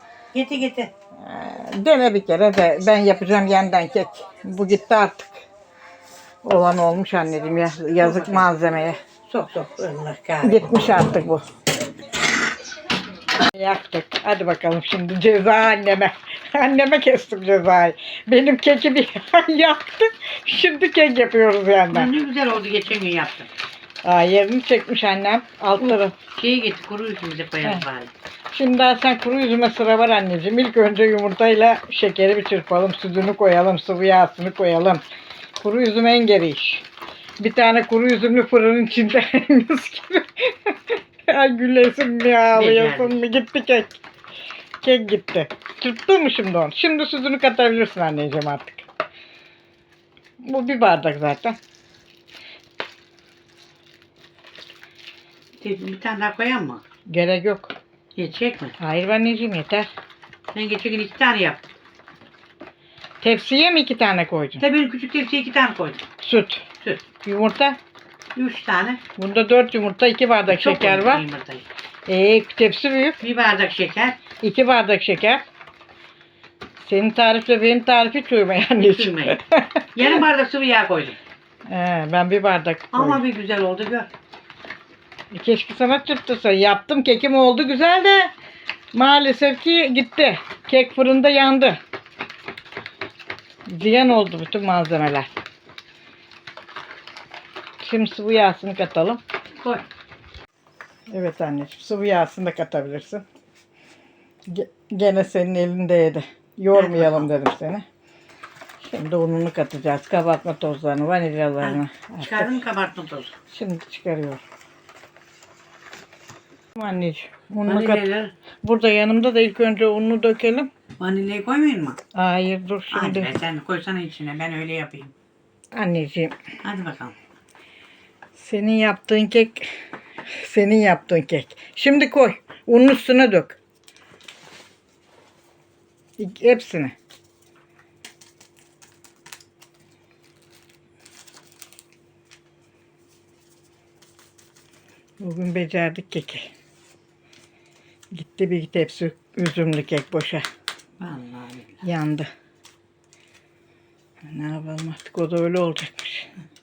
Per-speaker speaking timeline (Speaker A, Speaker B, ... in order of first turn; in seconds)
Speaker A: 0.3-0.9, 8.0-10.8, 21.9-23.5, 25.8-28.1, 42.5-43.1, 55.6-56.8, 58.1-58.8, 60.5-61.6, 64.6-66.0, 68.3-69.0, 70.5-71.7, 73.2-74.2, 78.8-79.4, 79.9-81.2, 82.9-84.1, 99.6-99.8, 106.7-107.3, 111.6-113.3, 117.7-118.3, 121.0-122.0, 122.9-125.1, 126.6-127.2, 151.0-151.8
Speaker B: 1.2-5.4, 6.4-9.0, 10.4-11.4, 13.4-22.1, 24.0-26.1, 28.5-35.0, 35.6-36.9, 37.4-44.0, 44.8-48.9, 50.4-51.6, 57.1-57.7, 58.8-59.9, 63.2-64.6, 66.2-66.6, 67.2-67.8, 69.2-71.2, 72.1-73.2, 74.4-75.4, 76.8-79.8, 81.7-83.2, 85.3-88.3, 88.9-91.8, 93.7-95.3, 97.8-99.2, 101.1-103.2, 104.5-107.8, 108.8-112.5, 113.5-114.4, 116.8-118.1, 118.6-120.7, 122.1-123.3, 125.7-126.3, 128.3-129.7, 130.3-133.6, 136.2-136.9, 145.2-146.5, 148.1-150.4, 151.8-152.3, 154.2-156.3